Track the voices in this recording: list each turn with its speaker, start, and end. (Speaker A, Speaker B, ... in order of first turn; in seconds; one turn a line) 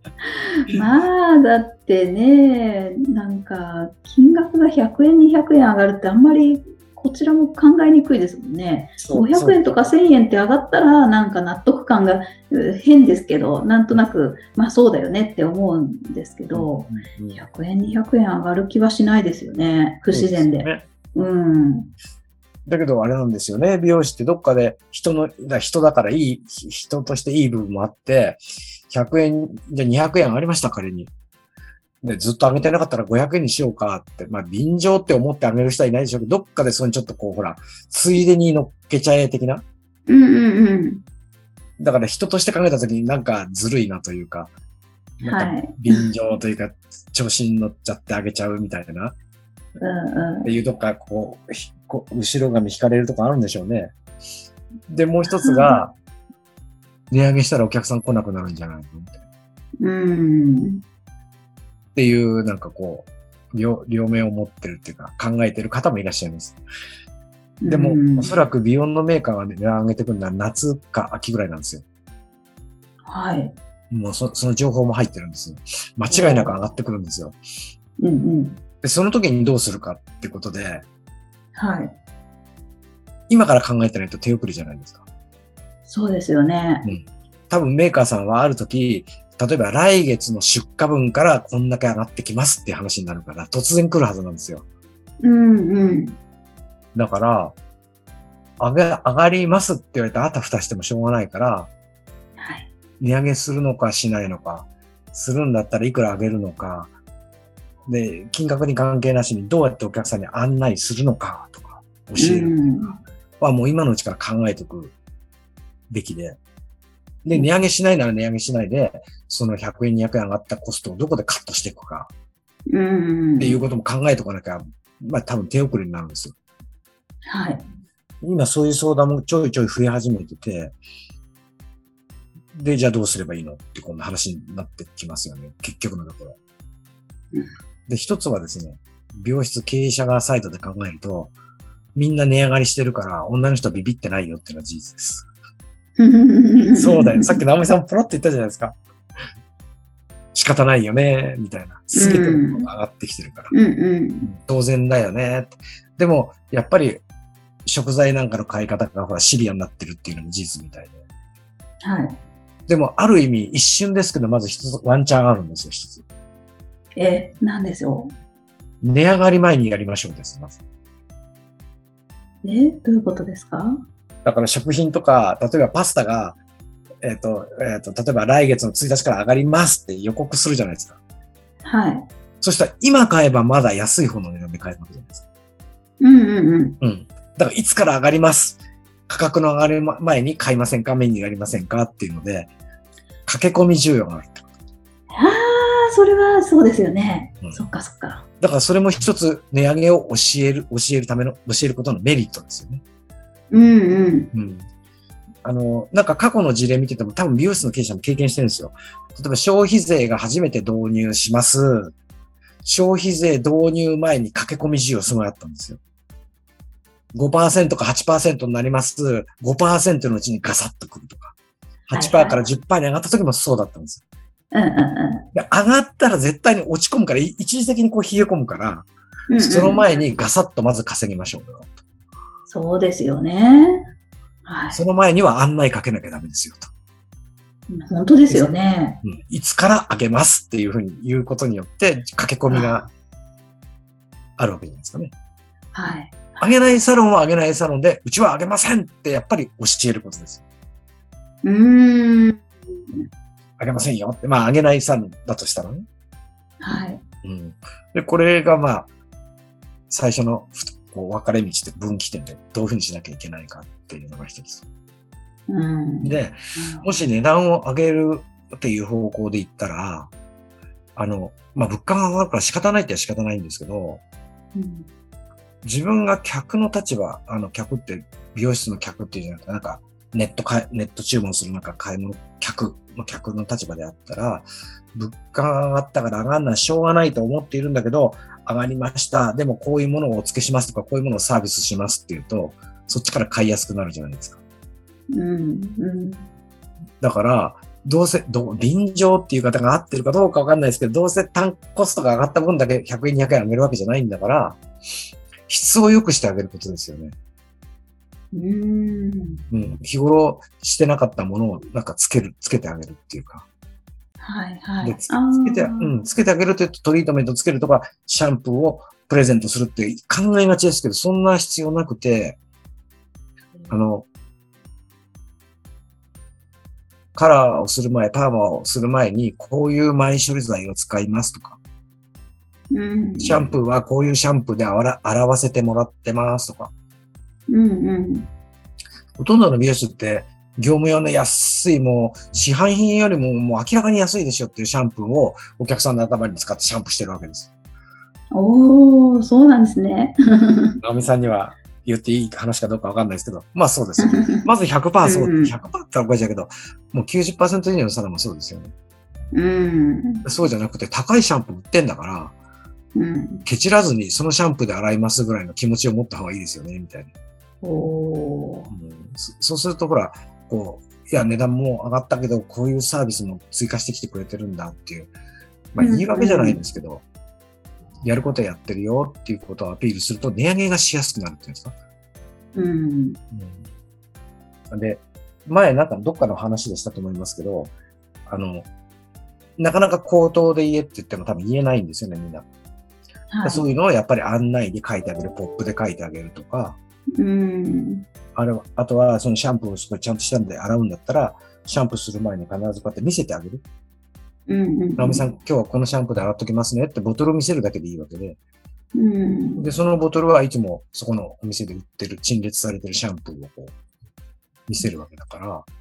Speaker A: 0.2-21.9
Speaker B: 9.0-9.7
Speaker B: 16.5-17.4
Speaker B: 20.1-20.9
Speaker B: 22.7-31.1
Speaker B: 32.0-39.6
Speaker A: 40.1-41.0
Speaker B: 41.8-44.5
Speaker B: 45.2-49.1
Speaker A: 45.2-46.0
Speaker A: 49.8-50.5
Speaker B: 50.4-53.9
Speaker B: 54.9-55.9
Speaker A: 55.3-55.8
Speaker B: 57.1-59.2
Speaker A: 59.8-60.8
Speaker B: 62.0-66.6
Speaker A: 67.6-68.3
Speaker B: 67.7-71.8
Speaker A: 73.1-73.6
Speaker B: 73.9-77.4
Speaker A: 76.1-76.5
Speaker A: 78.0-78.6
Speaker B: 78.8-80.8
Speaker A: 81.5-82.0
Speaker B: 83.3-85.0
Speaker A: 85.9-86.9
Speaker B: 86.8-94.7
Speaker A: 95.2-96.2
Speaker B: 97.0-97.5
Speaker B: 98.6-101.7
Speaker A: 102.4-102.7
Speaker B: 103.0-106.9
Speaker B: 107.9-114.9
Speaker A: 112.2-113.0
Speaker B: 115.9-116.4
Speaker B: 117.2-122.1
Speaker A: 122.7-123.6
Speaker B: 123.4-126.3
Speaker A: 127.3-127.7
Speaker B: 128.2-130.8
Speaker B: 132.5-136.4
Speaker B: 137.9-141.3
Speaker B: 141.9-145.3
Speaker A: 146.0-147.4
Speaker B: 146.8-148.8
Speaker B: 150.3-153.5
Speaker A: 151.9-152.7
Speaker A: 153.5-154.3
Speaker B: 154.2-157.0
Speaker B: 157.7-161.0
Speaker A: 161.8-162.2
Speaker B: 162.7-166.1
Speaker A: 167.0-168.1
Speaker B: 168.8-170.6
Speaker A: 172.4-173.8
Speaker B: 174.2-176.4
Speaker B: 177.0-181.0
Speaker A: 181.6-182.1
Speaker B: 182.4-185.2
Speaker A: 186.0-186.8
Speaker B: 186.8-192.5
Speaker B: 193.3-194.5
Speaker A: 195.1-198.3
Speaker B: 198.4-202.8
Speaker A: 203.5-204.3
Speaker B: 204.3-204.7
Speaker B: 205.4-211.9
Speaker B: 212.7-215.8
Speaker B: 217.1-221.3
Speaker B: 221.9-224.0
Speaker A: 221.9-222.4
Speaker A: 224.5-225.2
Speaker B: 225.3-231.8
Speaker A: 229.3-229.9
Speaker A: 232.5-233.9
Speaker A: 234.4-234.8
Speaker B: 234.7-236.7
Speaker A: 237.7-239.0
Speaker B: 239.0-242.9
Speaker A: 242.5-242.9
Speaker B: 244.4-245.1
Speaker A: 245.7-246.4
Speaker B: 246.4-250.4
Speaker A: 251.4-253.1
Speaker B: 253.6-255.9
Speaker A: 256.6-257.0
Speaker B: 257.2-258.9
Speaker B: 259.9-264.6
Speaker A: 265.5-266.9
Speaker B: 266.0-270.1
Speaker B: 271.0-274.0
Speaker A: 274.6-274.9
Speaker B: 275.6-294.4
Speaker A: 295.1-296.3
Speaker B: 297.0-304.6
Speaker B: 305.5-307.2
Speaker A: 308.3-309.4
Speaker B: 309.5-313.5
Speaker A: 314.2-316.0
Speaker B: 314.8-322.4
Speaker B: 323.7-324.1
Speaker B: 327.1-331.6
Speaker A: 332.7-333.5
Speaker B: 333.2-336.7
Speaker A: 337.5-338.3
Speaker B: 339.2-347.5
Speaker A: 348.3-350.8
Speaker B: 350.8-358.7
Speaker A: 354.0-354.5
Speaker A: 355.0-355.6
Speaker A: 359.3-360.2
Speaker B: 360.2-362.3
Speaker A: 362.9-363.4
Speaker B: 363.4-367.1
Speaker A: 367.6-368.7
Speaker B: 368.7-375.1
Speaker B: 375.7-377.0
Speaker A: 375.8-376.6
Speaker B: 378.0-381.8
Speaker A: 382.6-383.2
Speaker B: 383.3-383.7
Speaker B: 384.7-387.7
Speaker B: 388.3-388.7
Speaker B: 389.6-392.5
Speaker A: 393.3-393.6
Speaker B: 393.4-396.8
Speaker A: 397.2-398.1
Speaker B: 398.4-403.6
Speaker A: 404.5-405.2
Speaker B: 405.0-408.4
Speaker A: 409.0-409.7
Speaker B: 409.6-413.7
Speaker B: 414.7-415.7